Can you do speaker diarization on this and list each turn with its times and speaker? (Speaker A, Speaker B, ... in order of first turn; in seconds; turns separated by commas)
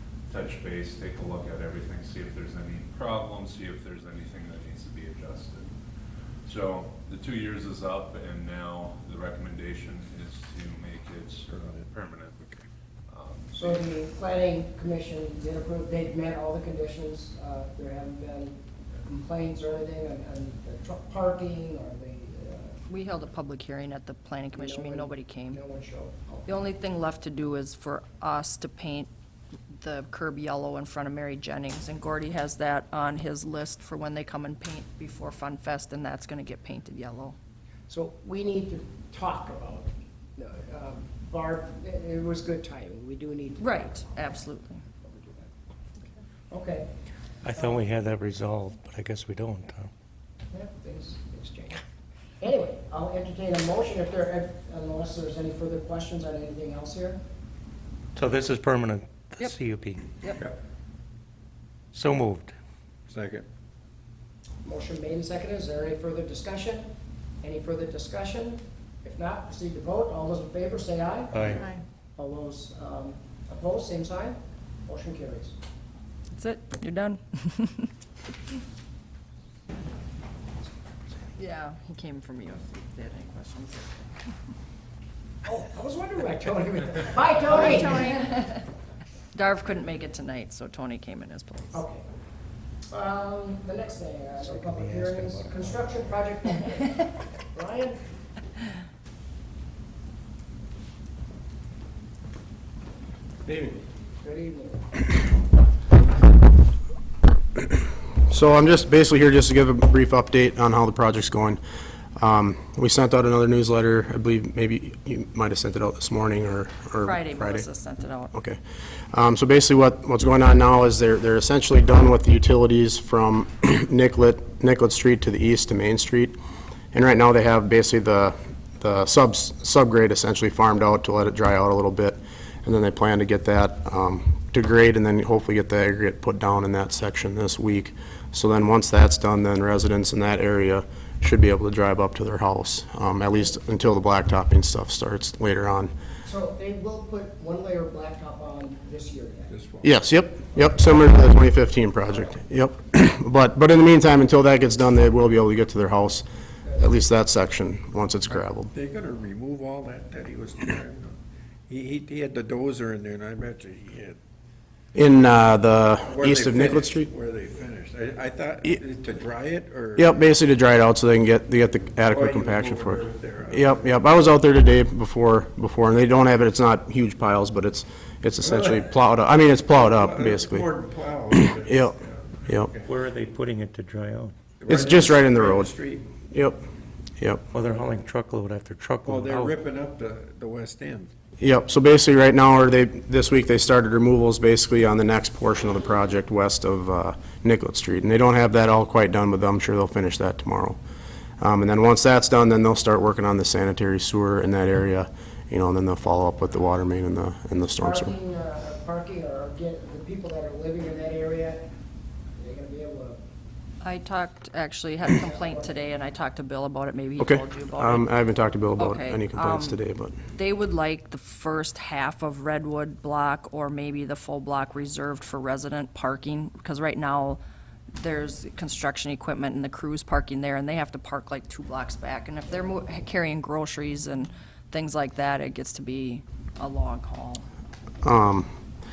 Speaker A: 0.3-5.7, Speaker A: 6.5-12.6, Speaker B: 11.5-11.9, Speaker A: 13.1-13.8, Speaker C: 13.5-22.8, Speaker D: 22.9-25.6, Speaker C: 24.6-26.7, Speaker D: 26.5-29.1, Speaker D: 29.8-37.4, Speaker C: 37.9-44.4, Speaker D: 43.6-44.8, Speaker C: 45.0-45.5, Speaker C: 46.5-46.9, Speaker E: 47.4-49.9, Speaker C: 47.5-47.8, Speaker C: 50.5-51.8, Speaker C: 52.4-57.2, Speaker E: 58.1-60.2, Speaker E: 61.9-62.5, Speaker B: 63.1-63.5, Speaker C: 64.6-66.9, Speaker C: 67.4-71.6, Speaker E: 71.3-71.6, Speaker C: 72.2-75.5, Speaker D: 76.3-77.9, Speaker D: 81.4-84.1, Speaker C: 85.5-88.2, Speaker D: 87.4-88.7, Speaker D: 89.3-91.8, Speaker C: 91.7-92.0, Speaker C: 92.9-98.0, Speaker E: 94.4-96.2, Speaker B: 103.5-103.8, Speaker C: 104.2-104.8, Speaker F: 108.3-111.6, Speaker F: 112.2-117.7, Speaker D: 117.0-118.3, Speaker F: 118.3-118.6, Speaker F: 119.1-126.4, Speaker F: 126.9-145.9, Speaker C: 146.2-149.5, Speaker B: 149.5-150.0, Speaker F: 149.8-158.7, Speaker C: 150.6-151.0, Speaker B: 158.3-161.1, Speaker B: 161.7-164.2, Speaker F: 164.9-167.1, Speaker B: 166.0-170.2, Speaker F: 170.0-180.7, Speaker B: 172.1-174.0, Speaker B: 178.4-178.9, Speaker B: 179.7-182.9, Speaker F: 181.3-182.7, Speaker E: 182.9-184.4, Speaker B: 184.6-186.1, Speaker F: 184.7-185.7, Speaker F: 186.3-186.6, Speaker F: 187.2-187.4, Speaker E: 187.5-189.6, Speaker B: 189.1-191.1, Speaker F: 191.4-200.8, Speaker F: 201.4-208.1, Speaker C: 207.8-211.7, Speaker C: 212.4-213.2, Speaker D: 213.8-218.1, Speaker C: 215.2-215.9, Speaker F: 217.2-220.2, Speaker D: 218.8-219.8, Speaker D: 220.3-227.4, Speaker D: 227.9-237.4, Speaker F: 238.0-238.5